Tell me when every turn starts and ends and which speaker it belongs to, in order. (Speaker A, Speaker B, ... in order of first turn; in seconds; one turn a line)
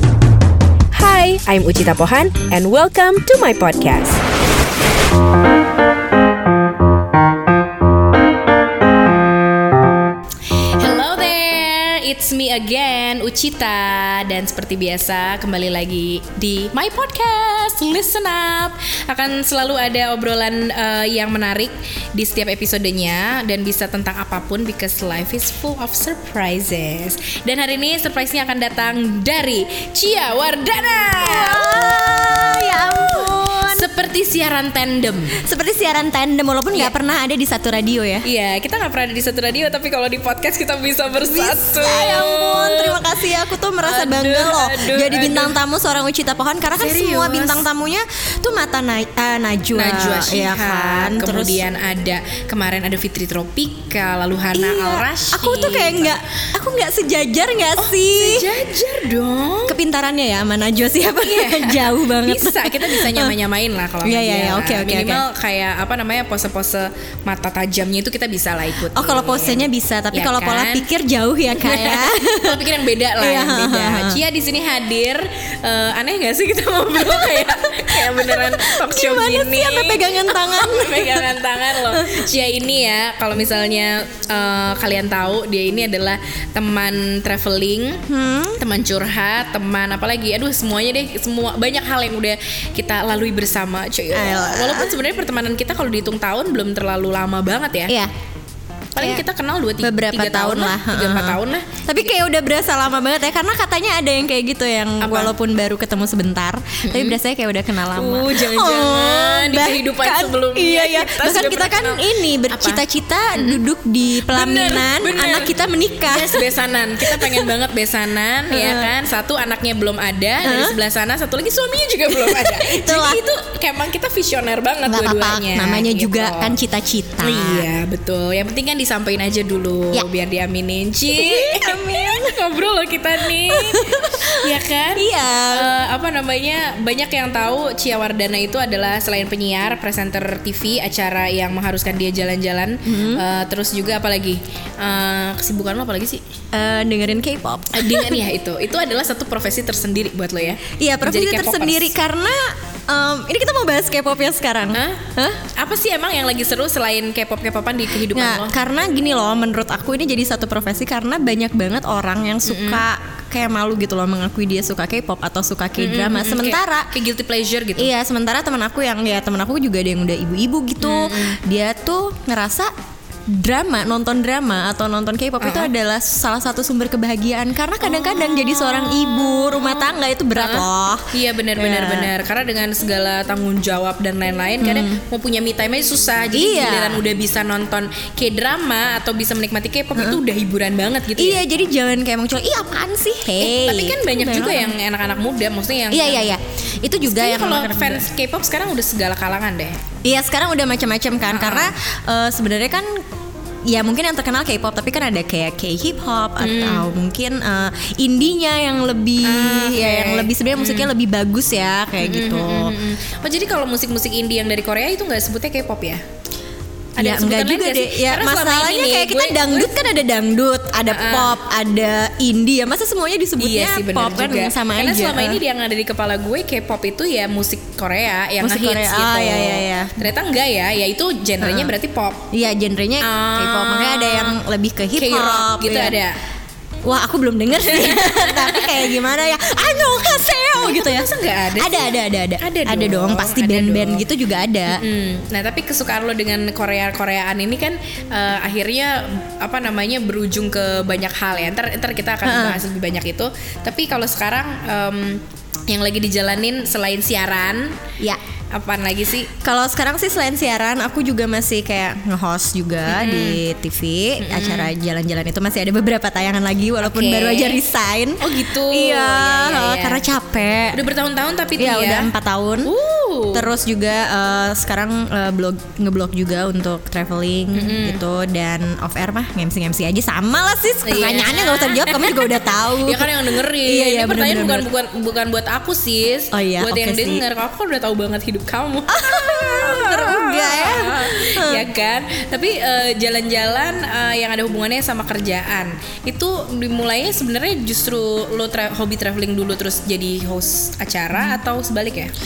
Speaker A: 0.9-4.2
Speaker B: 10.5-35.3
Speaker C: 31.2-33.9
Speaker C: 35.4-38.2
Speaker B: 38.2-43.2
Speaker C: 41.2-51.6
Speaker B: 43.8-45.6
Speaker B: 46.8-47.7
Speaker B: 49.7-56.2
Speaker C: 54.5-58.5
Speaker B: 57.8-59.7
Speaker C: 59.7-63.3
Speaker B: 61.2-70.9
Speaker C: 64.0-65.2
Speaker C: 68.9-72.6
Speaker B: 71.6-88.0
Speaker C: 73.2-74.2
Speaker C: 77.0-82.3
Speaker C: 88.1-88.6
Speaker B: 88.6-97.9
Speaker C: 94.1-95.0
Speaker B: 99.0-102.1
Speaker C: 99.8-116.4
Speaker B: 105.0-105.3
Speaker B: 106.8-107.2
Speaker B: 107.9-112.8
Speaker B: 113.4-113.6
Speaker B: 114.3-115.5
Speaker B: 116.1-126.5
Speaker C: 117.0-117.5
Speaker C: 118.5-118.9
Speaker C: 120.4-120.7
Speaker C: 122.1-123.2
Speaker C: 124.9-127.7
Speaker B: 127.2-146.2
Speaker C: 131.1-132.3
Speaker C: 133.5-135.7
Speaker C: 142.8-143.2
Speaker C: 146.5-148.2
Speaker B: 147.7-151.9
Speaker C: 150.7-155.4
Speaker B: 154.7-155.0
Speaker B: 155.6-158.5
Speaker C: 158.1-166.9
Speaker B: 162.4-162.8
Speaker B: 165.8-167.9
Speaker C: 167.8-172.7
Speaker B: 170.8-171.4
Speaker C: 173.3-182.1
Speaker B: 175.4-175.7
Speaker B: 177.8-191.4
Speaker C: 184.6-185.0
Speaker C: 186.3-187.0
Speaker C: 191.2-194.7
Speaker B: 193.3-196.3
Speaker C: 195.9-198.1
Speaker B: 197.0-199.8
Speaker C: 200.0-203.0
Speaker B: 201.3-201.7
Speaker C: 203.7-212.8
Speaker B: 206.4-206.9
Speaker B: 209.2-210.9
Speaker B: 212.0-216.0
Speaker B: 217.0-219.8
Speaker C: 217.0-225.4
Speaker B: 220.9-221.3
Speaker B: 223.4-232.3
Speaker C: 228.4-230.1
Speaker C: 231.4-231.7
Speaker C: 232.3-236.0
Speaker B: 233.0-234.4
Speaker B: 234.9-236.2
Speaker C: 236.8-244.8
Speaker B: 237.6-239.0
Speaker B: 240.6-244.1
Speaker B: 244.7-257.8
Speaker C: 252.2-252.6
Speaker B: 258.5-259.3
Speaker C: 259.4-270.8
Speaker B: 262.9-263.4
Speaker B: 264.2-264.7
Speaker B: 266.8-267.6
Speaker B: 268.2-270.1
Speaker B: 270.7-272.1
Speaker C: 271.6-272.7
Speaker B: 272.6-273.5
Speaker C: 273.3-284.7
Speaker B: 277.5-278.0
Speaker B: 280.8-302.1
Speaker C: 286.3-287.2
Speaker C: 288.9-291.6
Speaker C: 301.1-301.4